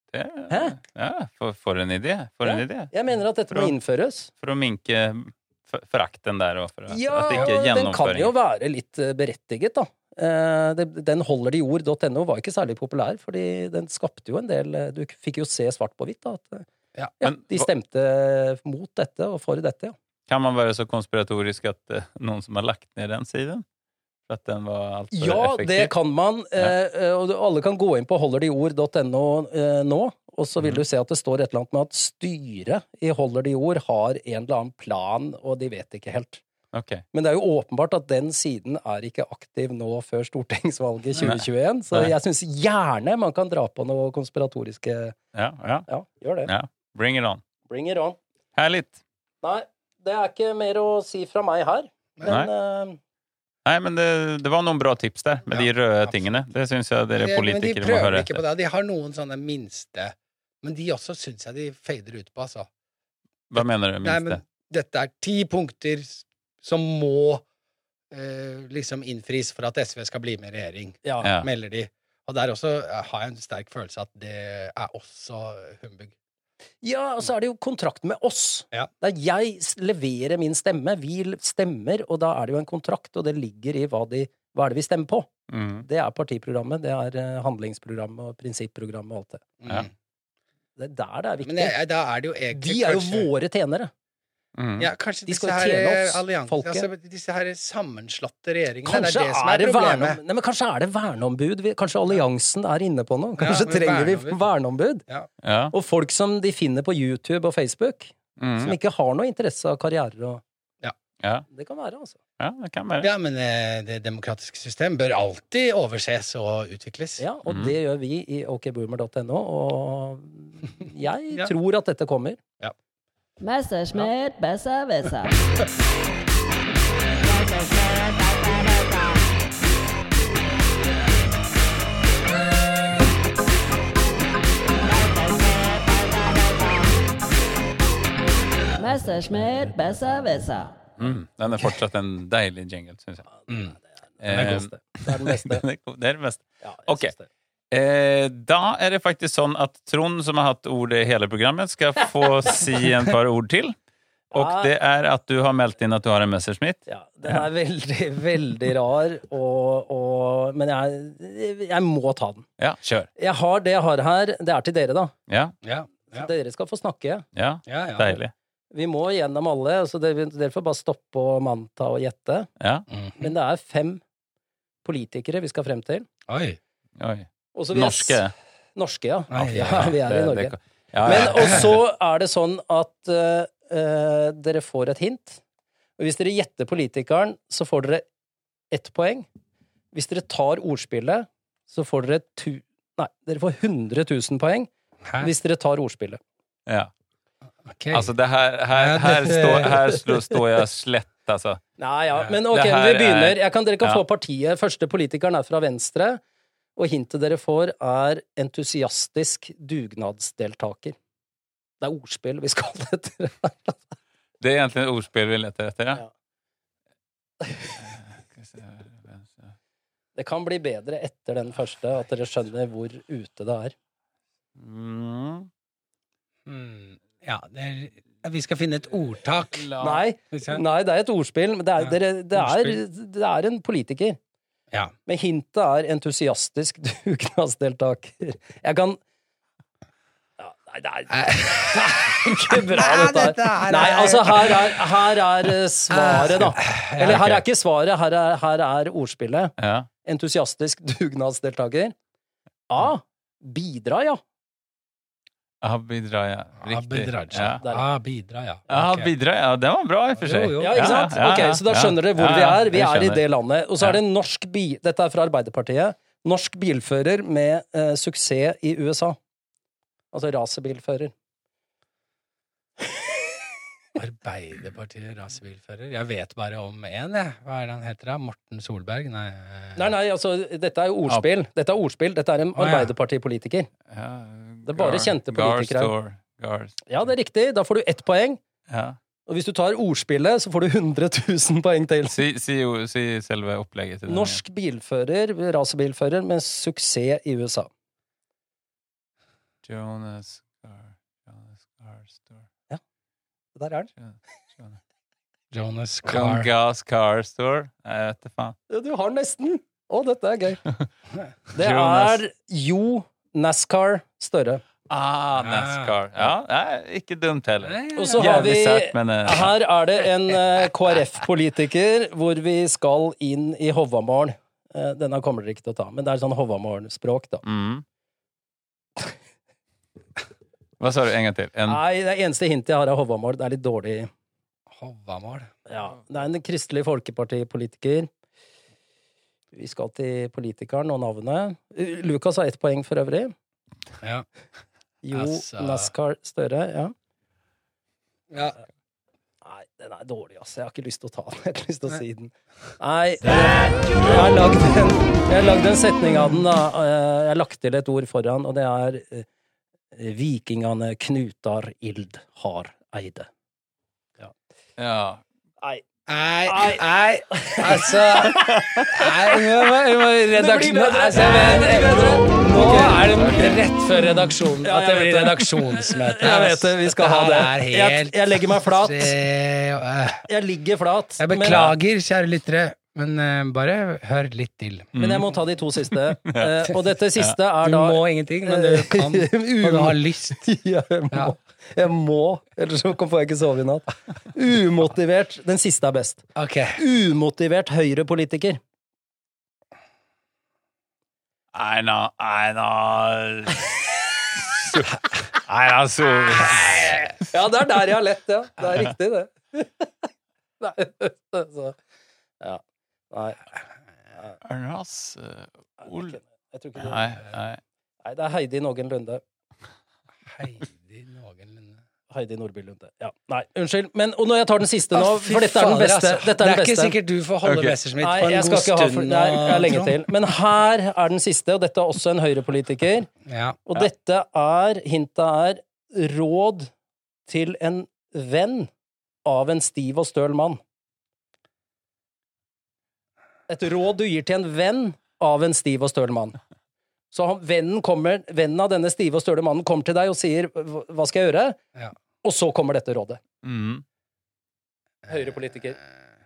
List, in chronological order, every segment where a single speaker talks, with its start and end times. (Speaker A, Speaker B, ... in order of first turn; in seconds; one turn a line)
Speaker A: 0.1-2.9
Speaker B: 0.5-0.8
Speaker B: 2.4-4.3
Speaker A: 3.5-3.8
Speaker A: 4.4-8.3
Speaker B: 6.9-16.6
Speaker B: 17.2-19.9
Speaker A: 17.2-17.7
Speaker A: 20.3-23.6
Speaker A: 24.3-25.9
Speaker B: 25.1-36.4
Speaker A: 36.7-37.0
Speaker B: 37.1-45.2
Speaker A: 41.2-42.1
Speaker A: 45.3-45.9
Speaker B: 45.9-46.5
Speaker A: 46.4-47.4
Speaker B: 47.7-48.2
Speaker A: 48.5-49.0
Speaker B: 49.4-53.0
Speaker A: 53.6-58.4
Speaker C: 57.2-62.7
Speaker A: 63.5-64.4
Speaker C: 63.5-67.4
Speaker C: 68.1-76.1
Speaker B: 71.0-71.3
Speaker A: 71.2-71.5
Speaker B: 76.8-85.3
Speaker A: 85.5-85.8
Speaker B: 85.8-89.4
Speaker C: 89.6-89.9
Speaker B: 90.8-91.8
Speaker C: 91.4-93.3
Speaker B: 92.5-93.9
Speaker A: 94.5-94.9
Speaker C: 94.8-100.2
Speaker B: 95.3-96.9
Speaker B: 98.8-105.0
Speaker C: 103.4-104.4
Speaker A: 105.4-105.7
Speaker B: 105.7-110.4
Speaker A: 108.4-108.8
Speaker A: 111.2-111.5
Speaker B: 111.5-112.2
Speaker A: 112.4-113.1
Speaker C: 113.0-117.2
Speaker B: 117.2-122.4
Speaker A: 117.5-117.7
Speaker D: 123.4-125.3
Speaker D: 127.2-129.2
Speaker D: 134.8-136.9
Speaker D: 138.8-140.7
Speaker A: 141.0-143.2
Speaker C: 143.5-143.8
Speaker B: 144.2-145.6
Speaker A: 144.2-147.1
Speaker C: 144.3-144.6
Speaker B: 146.6-147.3
Speaker A: 147.7-153.8
Speaker B: 154.3-154.7
Speaker A: 154.3-157.4
Speaker B: 156.9-162.5
Speaker A: 162.6-163.1
Speaker B: 163.2-165.1
Speaker A: 165.3-165.6
Speaker C: 165.6-166.3
Speaker B: 166.1-167.2
Speaker A: 167.3-168.3
Speaker C: 167.7-168.1
Speaker B: 168.7-172.5
Speaker A: 172.6-172.9
Speaker C: 172.9-173.2
Speaker B: 173.2-174.0
Speaker B: 174.8-176.1
Speaker C: 176.3-176.6
Speaker A: 177.0-178.3
Speaker B: 177.5-178.2
Speaker B: 178.8-185.4
Speaker C: 179.3-179.9
Speaker A: 179.4-181.8
Speaker C: 181.1-181.6
Speaker B: 186.0-188.0
Speaker B: 188.7-189.3
Speaker B: 189.9-196.2
Speaker C: 195.0-195.3
Speaker A: 196.7-196.9
Speaker C: 197.7-198.1
Speaker A: 197.9-201.6
Speaker C: 198.7-199.8
Speaker B: 201.8-206.2
Speaker A: 202.5-204.0
Speaker B: 206.8-210.9
Speaker B: 211.8-213.8
Speaker A: 214.4-216.0
Speaker A: 217.7-219.5
Speaker B: 220.2-223.7
Speaker A: 224.6-225.5
Speaker C: 226.4-229.8
Speaker A: 229.5-230.0
Speaker B: 229.8-234.2
Speaker C: 230.3-230.6
Speaker B: 235.1-239.0
Speaker B: 240.4-249.5
Speaker C: 241.1-244.8
Speaker C: 245.9-247.3
Speaker A: 247.1-247.4
Speaker A: 249.6-249.9
Speaker B: 250.0-251.9
Speaker B: 252.7-254.2
Speaker A: 255.6-257.6
Speaker C: 256.6-259.1
Speaker A: 258.7-263.2
Speaker C: 260.2-260.9
Speaker B: 260.6-269.2
Speaker B: 270.1-271.1
Speaker C: 273.9-279.9
Speaker B: 279.8-283.7
Speaker C: 282.6-282.9
Speaker A: 283.9-286.8
Speaker B: 284.6-285.9
Speaker B: 286.9-288.4
Speaker A: 288.7-289.0
Speaker B: 289.3-292.2
Speaker A: 292.1-294.4
Speaker B: 294.1-297.7
Speaker A: 299.6-302.4
Speaker B: 303.5-303.9
Speaker A: 304.0-304.8
Speaker C: 305.5-306.5
Speaker A: 306.1-308.6
Speaker B: 308.7-310.6
Speaker B: 311.5-314.6
Speaker A: 311.5-312.2
Speaker A: 314.9-319.5
Speaker C: 315.4-315.9
Speaker C: 317.6-318.5
Speaker B: 317.9-327.4
Speaker A: 327.4-327.8
Speaker A: 330.8-331.8
Speaker B: 331.6-334.1
Speaker C: 334.8-335.5
Speaker B: 335.7-338.1
Speaker B: 339.5-343.3
Speaker B: 345.0-346.9
Speaker C: 345.1-345.9
Speaker C: 348.3-348.6
Speaker B: 349.4-359.2
Speaker B: 359.9-363.3
Speaker A: 364.8-365.2
Speaker C: 366.1-380.2
Speaker B: 366.4-368.6
Speaker A: 368.2-369.1
Speaker B: 370.3-373.0
Speaker A: 373.1-373.6
Speaker B: 374.6-379.1
Speaker B: 380.2-381.7
Speaker C: 381.2-384.9
Speaker A: 381.4-381.8
Speaker A: 384.9-385.2
Speaker B: 384.9-398.6
Speaker A: 386.2-387.4
Speaker C: 387.6-390.5
Speaker C: 396.4-396.8
Speaker A: 401.5-403.8
Speaker A: 404.4-407.1
Speaker C: 406.5-406.9
Speaker B: 407.1-409.9
Speaker B: 410.6-411.8
Speaker B: 412.4-413.5
Speaker A: 414.4-416.1
Speaker B: 415.8-417.2
Speaker A: 416.8-417.6
Speaker B: 418.0-419.2
Speaker C: 420.3-421.8
Speaker B: 422.1-426.9
Speaker C: 424.9-429.9
Speaker A: 427.4-427.8
Speaker B: 428.0-433.1
Speaker C: 433.2-433.6
Speaker B: 433.7-436.7
Speaker B: 437.3-438.7
Speaker B: 439.2-440.6
Speaker B: 443.5-446.4
Speaker B: 447.1-451.6
Speaker B: 452.2-453.2
Speaker A: 453.4-453.8
Speaker B: 455.1-455.8